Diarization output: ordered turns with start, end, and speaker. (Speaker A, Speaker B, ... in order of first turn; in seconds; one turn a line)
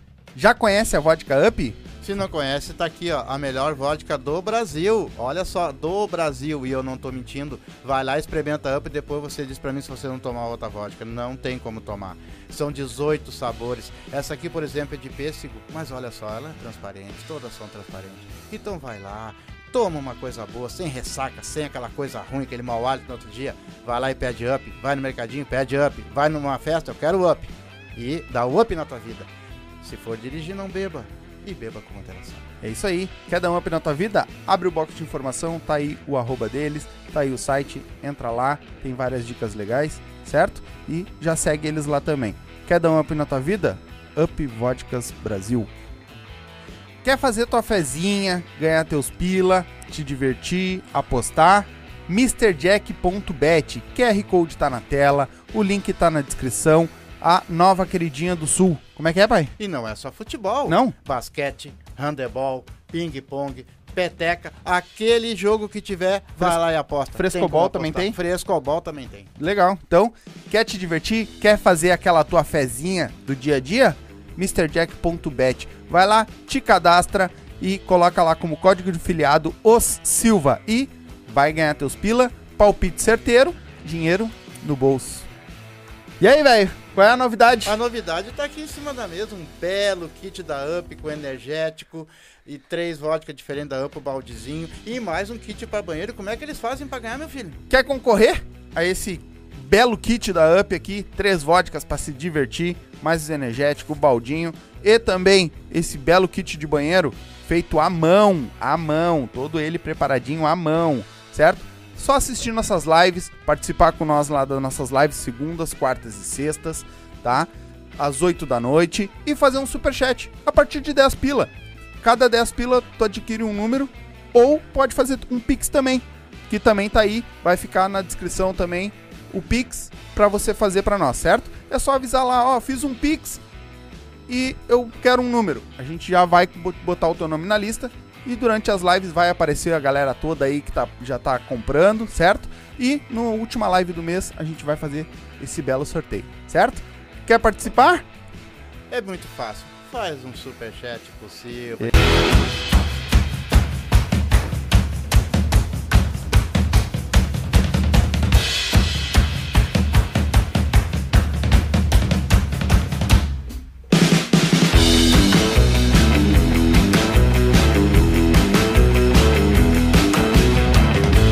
Speaker A: 0.3-1.8
Speaker B: 2.0-29.3
Speaker B: 29.8-32.5
Speaker A: 32.6-45.7
Speaker A: 47.0-59.5
Speaker B: 59.6-69.3
Speaker A: 60.7-61.0
Speaker A: 66.4-66.6
Speaker A: 67.1-68.2
Speaker A: 69.4-85.3
Speaker A: 86.2-87.8
Speaker B: 87.7-97.6
Speaker A: 97.7-133.4
Speaker A: 134.3-148.1
Speaker B: 148.9-151.9